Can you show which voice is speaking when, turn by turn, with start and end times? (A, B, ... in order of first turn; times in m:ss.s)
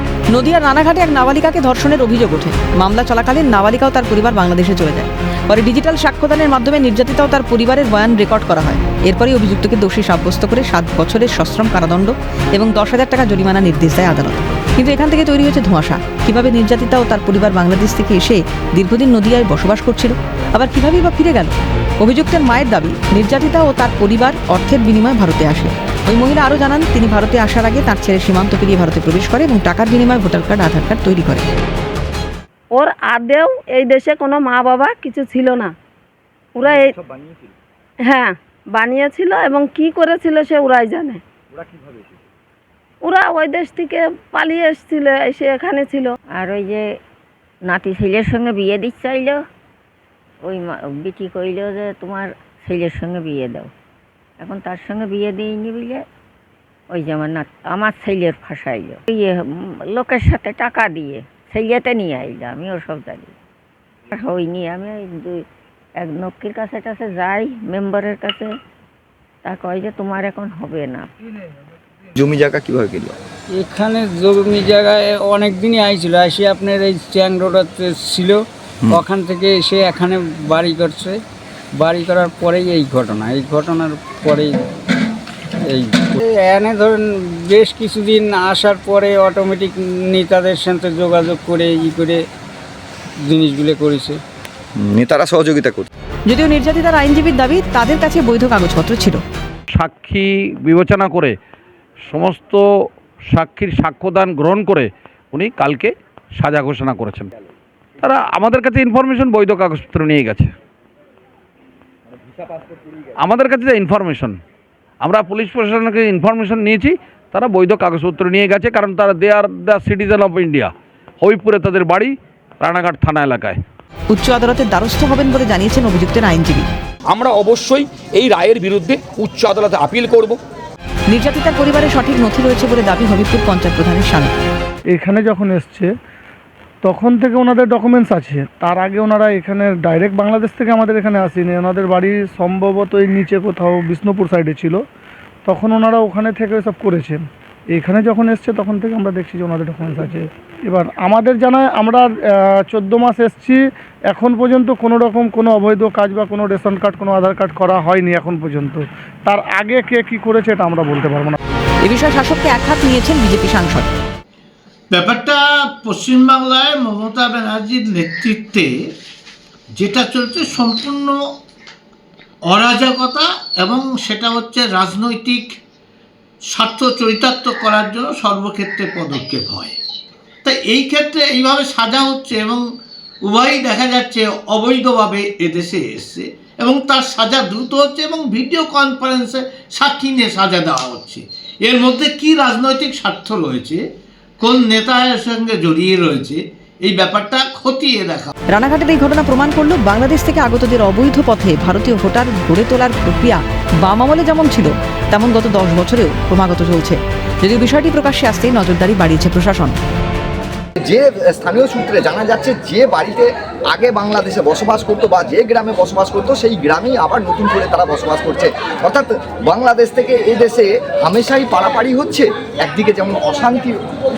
0:00.3-0:31.5 A
0:32.7-0:35.7 B
0:36.6-0:37.0 B
0:38.0-0:41.2 B
0:43.0-0:46.2 B
0:46.3-0:46.9 C
0:47.7-0:49.4 C
0:50.4-0:53.7 C
0:54.4-0:56.0 C
0:56.9-1:03.4 C
1:04.1-1:05.4 C
1:06.0-1:08.6 C
1:09.4-1:11.1 C
1:12.2-1:13.1 D
1:13.5-1:18.4 E
1:18.9-1:21.2 E
1:21.8-1:24.6 E
1:25.7-1:32.2 E
1:33.3-1:34.2 E
1:34.8-1:35.9 D
1:36.3-1:39.2 A
1:39.7-1:41.4 F
1:42.0-1:47.3 F
1:48.0-1:50.5 F
1:53.2-1:54.4 F
1:55.0-2:03.6 F
2:04.1-2:06.7 A
2:07.0-2:10.4 G
2:11.1-2:14.4 A
2:14.9-2:15.9 H
2:16.8-2:24.8 H
2:25.5-2:27.2 H
2:27.7-2:41.4 H
2:41.8-2:43.9 A
2:44.9-2:48.7 I
2:49.8-2:51.2 I
2:52.5-2:55.5 I
2:56.5-2:59.8 I
3:00.4-3:02.6 I
3:03.3-3:13.8 I
3:14.4-3:18.3 I
3:18.5-3:29.8 A
3:30.8-3:43.8 D